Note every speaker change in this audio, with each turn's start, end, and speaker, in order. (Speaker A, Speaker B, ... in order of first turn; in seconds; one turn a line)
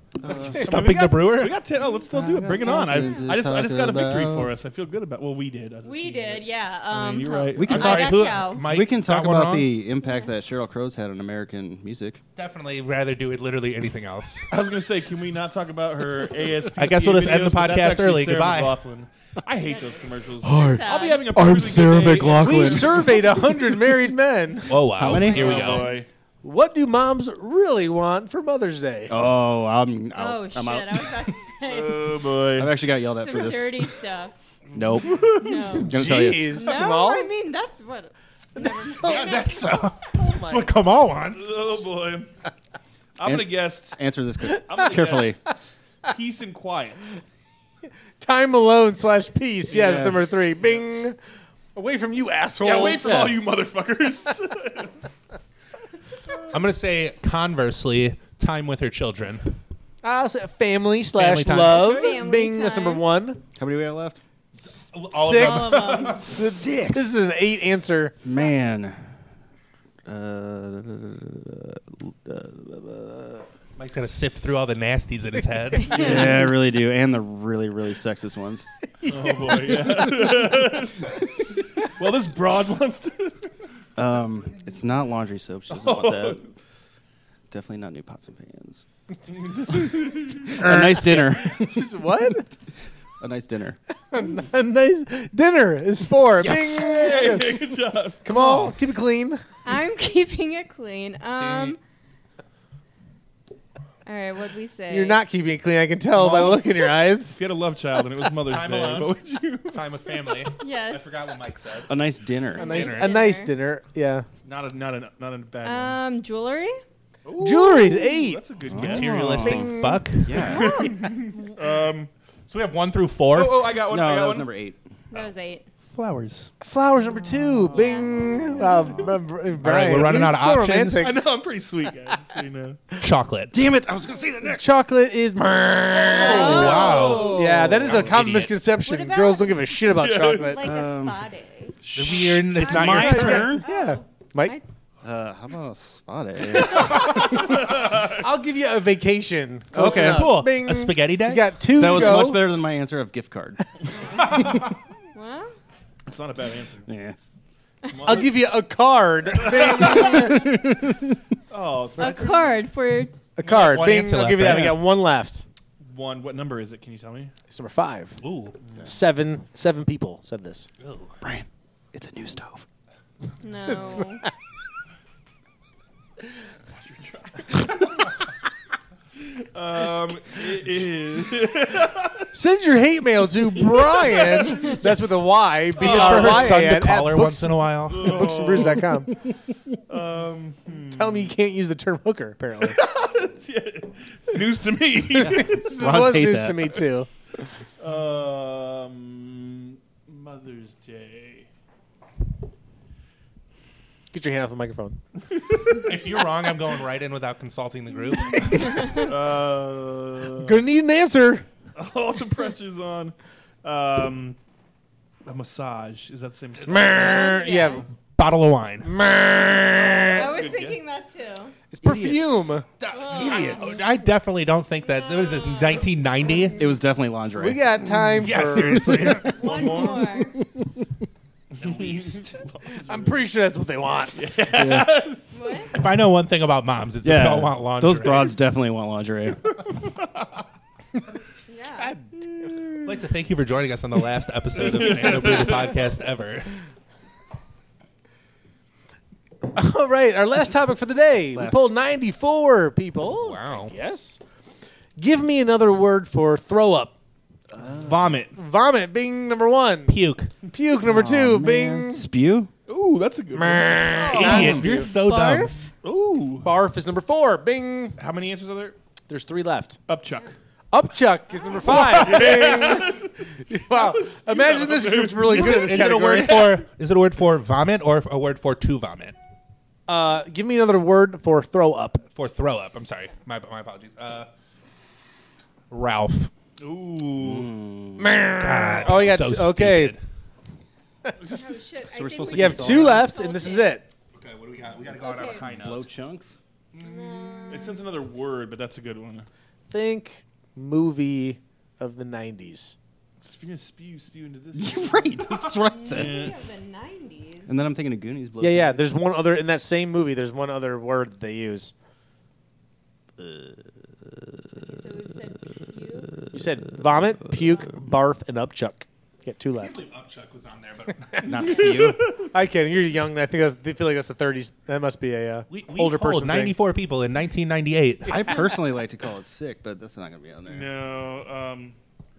Speaker A: 0.2-0.6
Speaker B: 0.5-8.1
Speaker C: 0.5-1.6
Speaker A: 2.1-4.5
Speaker D: 2.8-3.2
Speaker D: 5.8-8.7
Speaker A: 7.5-12.2
Speaker C: 7.7-9.7
Speaker D: 10.0-10.3
Speaker C: 12.4-14.5
Speaker B: 14.5-23.1
Speaker C: 16.8-18.7
Speaker D: 19.6-21.3
Speaker A: 20.4-23.2
Speaker E: 22.4-29.1
Speaker C: 24.7-25.9
Speaker A: 24.9-25.8
Speaker B: 25.1-26.1
Speaker A: 29.1-31.2
Speaker D: 30.2-32.3
Speaker B: 31.6-32.8
Speaker A: 32.5-33.9
Speaker D: 32.9-34.3
Speaker B: 34.7-35.5
Speaker A: 34.7-36.7
Speaker E: 35.1-37.3
Speaker D: 35.3-35.9
Speaker D: 36.5-40.0
Speaker E: 38.5-39.5
Speaker C: 39.0-41.8
Speaker E: 40.1-40.7
Speaker B: 41.4-42.3
Speaker B: 43.2-44.0
Speaker A: 43.2-45.4
Speaker B: 44.5-45.4
Speaker B: 46.1-47.1
Speaker E: 48.2-51.2
Speaker A: 49.7-50.2
Speaker B: 49.9-50.1
Speaker E: 51.7-53.4
Speaker B: 52.6-55.0
Speaker C: 56.5-59.6
Speaker E: 60.0-63.4
Speaker C: 61.2-61.9
Speaker A: 61.2-61.7
Speaker D: 61.6-63.1
Speaker B: 61.7-62.0
Speaker A: 63.6-64.2
Speaker C: 64.6-66.3
Speaker E: 65.1-68.2
Speaker D: 65.3-66.2
Speaker A: 66.2-67.1
Speaker A: 68.2-69.0
Speaker A: 70.1-73.4
Speaker C: 73.8-76.1
Speaker A: 75.8-78.7
Speaker E: 79.0-80.4
Speaker B: 79.1-83.5
Speaker A: 84.0-86.4
Speaker B: 85.7-86.5
Speaker A: 87.5-88.8
Speaker B: 89.3-90.5
Speaker E: 89.7-92.5
Speaker A: 90.3-92.0
Speaker A: 93.2-93.8
Speaker E: 94.1-97.6
Speaker A: 96.4-96.9
Speaker B: 96.5-98.3
Speaker E: 98.2-99.4
Speaker A: 98.3-98.7
Speaker D: 99.7-101.8
Speaker C: 101.4-101.8
Speaker D: 104.1-105.2
Speaker E: 104.9-107.4
Speaker B: 106.2-109.9
Speaker C: 108.4-109.2
Speaker C: 109.7-111.9
Speaker D: 110.6-111.2
Speaker A: 111.9-112.9
Speaker D: 112.5-113.5
Speaker C: 112.6-113.1
Speaker E: 112.6-114.3
Speaker B: 114.5-116.0
Speaker D: 115.6-116.8
Speaker B: 117.2-119.6
Speaker E: 117.4-118.4
Speaker A: 118.7-121.0
Speaker C: 118.7-120.6
Speaker E: 119.4-120.0
Speaker B: 120.4-122.1
Speaker E: 120.5-121.4
Speaker C: 122.5-123.8
Speaker B: 123.3-124.5
Speaker A: 123.9-124.8
Speaker D: 125.1-125.7
Speaker B: 125.9-126.5
Speaker E: 126.6-131.2
Speaker D: 127.7-128.7
Speaker C: 129.6-131.1
Speaker B: 131.0-132.8
Speaker C: 133.0-133.5
Speaker A: 133.5-134.7
Speaker E: 134.5-140.7
Speaker B: 136.1-136.7
Speaker D: 136.1-137.6
Speaker A: 136.2-138.5
Speaker C: 136.3-138.5
Speaker D: 138.8-139.7
Speaker B: 139.9-140.6
Speaker D: 140.4-141.8
Speaker A: 140.6-141.2
Speaker B: 141.8-142.5
Speaker C: 141.9-143.6
Speaker A: 142.5-143.7
Speaker D: 142.6-144.6
Speaker E: 142.7-144.6
Speaker A: 145.0-147.4
Speaker E: 146.5-152.6
Speaker B: 146.9-148.3
Speaker A: 149.7-150.4
Speaker C: 149.8-151.5
Speaker A: 151.7-153.6
Speaker D: 153.9-154.6
Speaker D: 155.2-155.5
Speaker B: 156.1-156.9
Speaker A: 156.9-157.2
Speaker B: 157.8-158.4
Speaker E: 158.0-160.7
Speaker B: 159.4-160.2
Speaker A: 159.9-161.2
Speaker B: 161.5-162.5
Speaker D: 162.0-163.1
Speaker E: 163.4-165.4
Speaker C: 163.4-164.8
Speaker B: 165.8-167.3
Speaker E: 167.5-168.2
Speaker C: 168.2-168.6
Speaker E: 168.8-170.7
Speaker C: 170.8-171.2
Speaker A: 171.2-172.7
Speaker D: 173.4-174.2
Speaker E: 173.5-174.3
Speaker B: 176.7-178.1
Speaker B: 179.3-182.3
Speaker E: 182.3-189.2
Speaker B: 183.6-185.1
Speaker B: 185.8-186.7
Speaker C: 185.8-188.3
Speaker B: 187.9-189.1
Speaker B: 189.9-191.3
Speaker E: 190.9-192.8
Speaker B: 192.6-195.7
Speaker E: 195.1-197.1
Speaker A: 195.2-196.7
Speaker B: 197.8-201.5
Speaker E: 204.1-205.0
Speaker B: 205.3-205.9
Speaker C: 205.8-208.9
Speaker E: 208.3-209.1
Speaker B: 208.9-210.6
Speaker E: 210.4-211.5
Speaker B: 211.8-214.4
Speaker B: 215.2-217.7
Speaker E: 216.7-217.8
Speaker D: 216.9-217.8
Speaker C: 218.2-218.9
Speaker E: 218.8-220.3
Speaker B: 220.0-220.8
Speaker D: 220.1-221.6
Speaker E: 221.7-223.8
Speaker A: 221.9-222.2
Speaker C: 222.8-226.7
Speaker D: 222.9-223.8
Speaker D: 224.9-225.9
Speaker A: 226.5-228.1
Speaker E: 227.4-229.4
Speaker C: 228.2-229.6
Speaker B: 229.2-230.3
Speaker D: 229.2-230.4
Speaker B: 231.5-233.2
Speaker C: 231.6-232.3
Speaker E: 232.7-234.2
Speaker B: 234.1-235.8
Speaker A: 234.5-235.0
Speaker D: 235.3-235.7
Speaker C: 235.7-238.4
Speaker A: 237.0-239.7
Speaker D: 241.5-241.9
Speaker E: 241.8-242.6
Speaker C: 242.8-246.6
Speaker B: 244.6-245.7
Speaker E: 249.5-254.2
Speaker A: 251.3-251.6
Speaker C: 253.2-253.7
Speaker E: 255.0-256.9
Speaker B: 257.8-258.3
Speaker E: 258.3-259.9
Speaker C: 259.9-260.3
Speaker E: 260.5-262.1
Speaker A: 260.8-262.5
Speaker B: 262.7-264.7
Speaker E: 263.3-264.7
Speaker C: 264.1-265.5
Speaker A: 264.2-264.7
Speaker D: 264.7-265.6
Speaker B: 265.8-266.5
Speaker E: 266.4-268.0
Speaker B: 268.0-268.8
Speaker E: 269.1-269.8
Speaker B: 269.9-270.3
Speaker E: 270.7-276.6
Speaker B: 271.5-276.1
Speaker C: 275.2-279.1
Speaker E: 279.9-282.0
Speaker C: 282.1-284.3
Speaker C: 285.7-286.3
Speaker B: 286.6-287.5
Speaker A: 287.1-288.3
Speaker E: 288.0-289.9
Speaker C: 288.4-290.0
Speaker D: 291.2-293.8
Speaker A: 291.9-293.1
Speaker E: 292.3-293.9
Speaker C: 294.1-295.9
Speaker D: 294.9-295.4
Speaker A: 295.4-296.4
Speaker D: 296.8-297.9
Speaker B: 297.5-299.3
Speaker E: 299.7-302.8
Speaker B: 303.2-306.4
Speaker A: 304.5-306.3
Speaker D: 305.6-307.5
Speaker A: 307.5-308.9
Speaker E: 308.4-311.7
Speaker D: 314.7-316.3
Speaker E: 316.3-319.8
Speaker D: 317.1-317.6
Speaker C: 319.6-321.6
Speaker A: 321.2-322.1
Speaker B: 321.3-322.3
Speaker D: 321.4-321.8
Speaker E: 322.2-326.6
Speaker C: 325.5-328.4
Speaker A: 328.1-330.8
Speaker B: 330.4-331.8